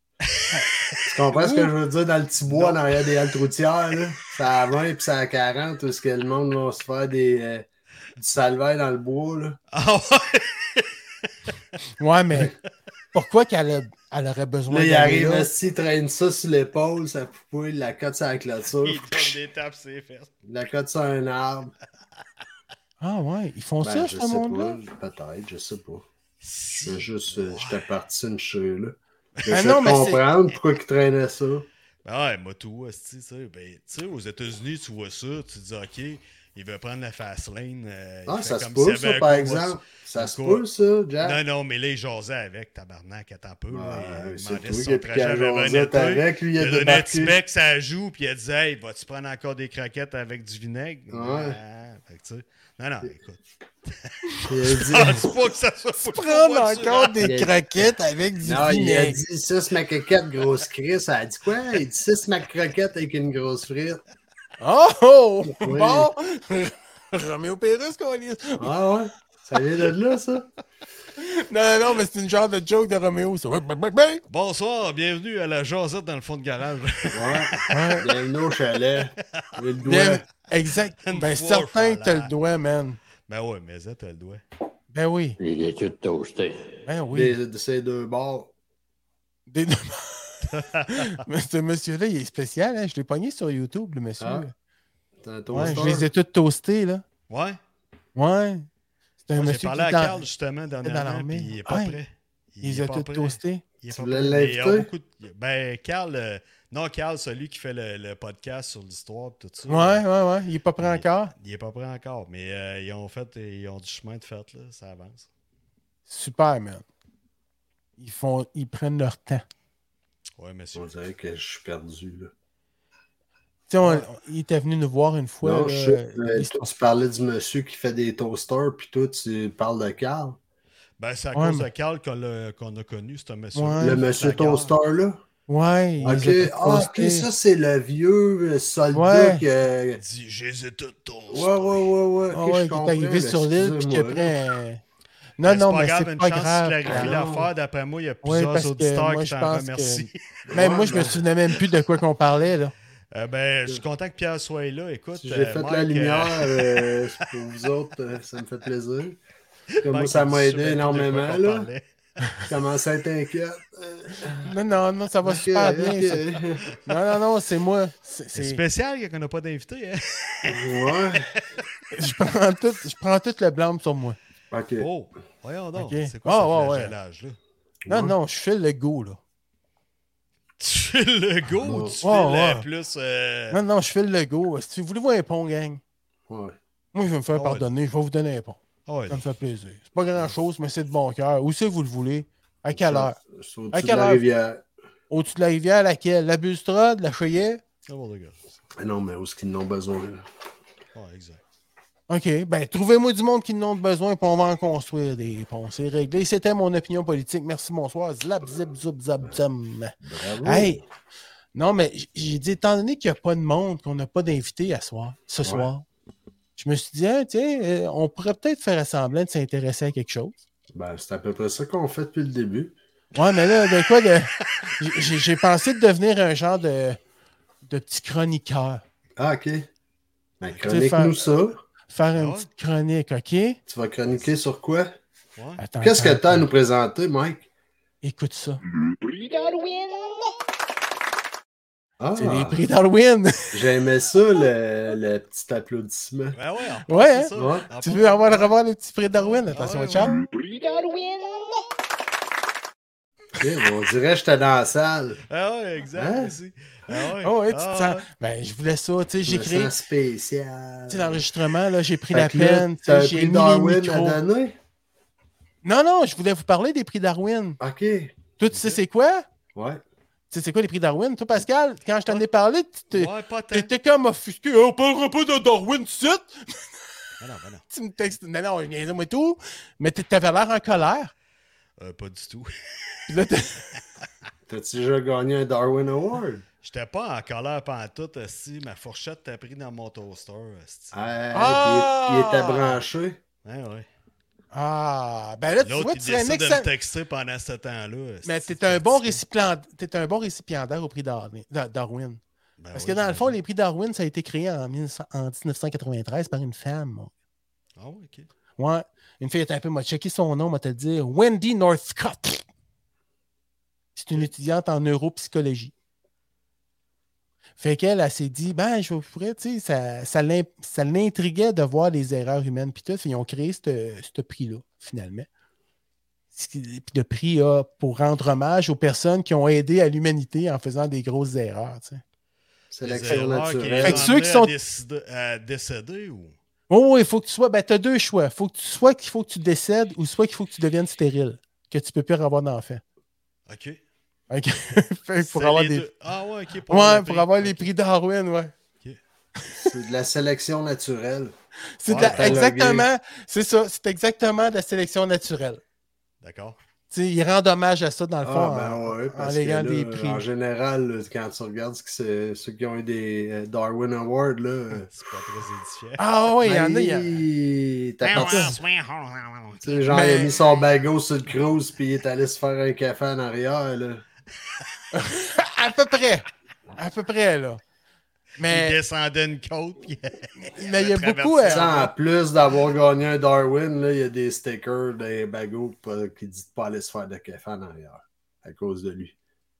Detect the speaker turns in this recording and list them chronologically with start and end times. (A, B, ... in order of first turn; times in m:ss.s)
0:00.5-0:01.7 A
0:01.0-0:09.6 B
0:02.5-0:03.2 C
0:09.7-0:10.9 C
0:12.0-0:12.5 A
0:13.1-0:15.5 A
0:14.7-0:19.4 B
0:18.8-0:20.3 C
0:20.4-0:21.7 B
0:23.0-0:24.8 A
0:23.8-0:26.0 B
0:26.4-0:27.8 C
0:26.7-0:31.7 B
0:29.4-0:29.7 C
0:29.5-0:30.2 A
0:32.0-0:40.6 C
0:38.3-0:41.4 B
0:41.2-0:57.3 C
0:43.7-0:47.4 B
0:51.1-0:51.6 B
0:54.5-0:55.3 B
0:56.0-0:59.2 A
0:57.2-0:57.5 B
0:58.4-1:04.0 B
1:04.6-1:08.7 A
1:05.5-1:06.1 B
1:08.6-1:10.5 B
1:11.2-1:14.2 A
1:14.3-1:17.7 C
1:17.1-1:20.2 B
1:17.7-1:18.0 A
1:19.8-1:23.0 A
1:21.0-1:22.3 C
1:23.3-1:24.4 C
1:24.9-1:25.4 A
1:25.4-1:26.8 D
1:26.8-1:27.4 A
1:27.1-1:28.5 B
1:29.5-1:34.5 A
1:30.4-1:31.2 C
1:34.2-1:34.5 B
1:35.2-1:36.1 B
1:35.5-1:37.0 A
1:37.3-1:37.6 C
1:38.1-1:38.7 A
1:39.2-1:40.2 A
1:39.3-1:50.0 C
1:40.8-1:42.0 A
1:42.6-1:43.6 A
1:43.9-1:44.9 B
1:49.6-1:51.3 A
1:50.8-1:55.3 C
1:56.1-1:56.8 A
1:58.0-1:59.4 A
2:00.4-2:00.9 C
2:00.7-2:02.3 B
2:03.7-2:06.7 A
2:05.4-2:10.4 B
2:11.0-2:14.8 C
2:11.3-2:11.7 A
2:13.5-2:14.0 A
2:13.8-2:15.2 B
2:15.5-2:17.3 A
2:16.0-2:20.0 B
2:18.9-2:19.4 A
2:20.0-2:21.8 C
2:21.3-2:24.3 B
2:22.3-2:24.8 A
2:25.4-2:27.1 A
2:25.4-2:30.2 C
2:26.8-2:27.5 B
2:28.2-2:32.7 A
2:30.5-2:31.2 B
2:33.1-2:37.0 C
2:35.2-2:39.2 B
2:39.8-2:42.5 C
2:39.8-2:41.7 B
2:42.4-2:44.5 B
2:44.4-2:46.2 A
2:45.2-2:46.6 B
2:46.8-2:48.6 A
2:48.3-2:51.4 C
2:50.4-2:51.3 B
2:51.9-2:54.2 A
2:54.5-2:54.9 B
2:54.8-2:57.4 C
2:55.7-2:56.9 A
2:57.8-2:58.2 B
2:57.9-2:59.2 A
3:00.6-3:03.6 C
3:01.6-3:01.9 B
3:02.0-3:02.6 A
3:03.5-3:05.8 A
3:06.3-3:06.6 B
3:06.9-3:13.2 A
3:07.3-3:07.6 C
3:08.8-3:09.3 C
3:12.7-3:14.6 B
3:13.7-3:14.2 A
3:15.1-3:17.6 A
3:17.8-3:18.4 C
3:18.8-3:20.2 B
3:20.9-3:21.4 C
3:22.1-3:30.8 A
3:30.0-3:30.8 B
3:31.5-3:35.8 A
3:35.4-3:35.7 B
3:36.6-3:40.4 A
3:40.7-3:42.7 B
3:43.1-3:47.0 A
3:47.6-3:48.8 A
3:49.2-3:49.7 B
3:50.4-3:51.6 B
3:50.7-3:51.2 A
3:51.9-3:53.6 A
3:52.2-3:52.5 C
3:53.7-3:54.9 B
3:55.4-3:55.6 C
3:55.6-3:56.5 A
3:55.8-3:57.5 B
3:58.0-3:58.6 A
3:58.7-4:00.3 D
4:02.0-4:02.6 B
4:02.2-4:03.6 A
4:03.5-4:06.4 B
4:06.3-4:08.6 C
4:06.9-4:10.2 A
4:07.4-4:07.6 B
4:09.1-4:10.2 C
4:10.0-4:11.6 D
4:13.4-4:15.2 B
4:15.3-4:18.0 C
4:15.9-4:16.3 B
4:17.2-4:19.7 A
4:19.2-4:21.2 B
4:20.9-4:24.2 A
4:22.1-4:24.5 B
4:25.6-4:27.6 A
4:27.6-4:28.2 B
4:28.4-4:29.2 A
4:28.5-4:28.8 C
4:29.5-4:29.8 B
4:30.3-4:36.6 A
4:32.9-4:33.7 C
4:37.2-4:37.6 C
4:37.7-4:41.1 A
4:41.8-4:43.1 C
4:43.1-4:43.8 A
4:44.5-4:46.4 B
4:46.6-4:51.0 C
4:50.9-4:53.2 B
4:51.3-4:52.8 A
4:53.4-4:53.9 C
4:54.5-4:56.7 A
4:55.6-4:59.2 C
4:58.2-5:02.2 A
5:02.6-5:03.4 C
5:02.7-5:07.1 A
5:07.8-5:08.3 C
5:08.6-5:12.4 A
5:14.0-5:15.7 A
5:17.6-5:25.3 A
5:26.3-5:32.0 A
5:32.7-5:34.1 B
5:32.8-5:36.4 C
5:33.8-5:34.5 A
5:36.7-5:42.8 A
5:43.5-5:43.8 C
5:44.3-5:45.9 A
5:45.2-5:47.7 C
5:46.7-5:48.5 A
5:49.4-5:49.7 A
5:49.6-5:51.3 B
5:51.8-5:55.6 A
5:51.9-5:52.4 C
5:51.9-5:52.9 B
5:56.2-5:56.6 C
5:56.9-6:00.2 A
5:58.2-6:04.9 B
6:04.7-6:06.0 C
6:06.0-6:07.1 A
6:06.4-6:08.6 B
6:08.0-6:09.9 C
6:08.1-6:08.5 A
6:09.6-6:14.0 B
6:09.9-6:10.3 A
6:14.9-6:16.2 A
6:16.8-6:17.6 A
6:18.4-6:18.8 A
6:18.5-6:21.9 C
6:20.4-6:21.9 A
6:21.4-6:29.1 B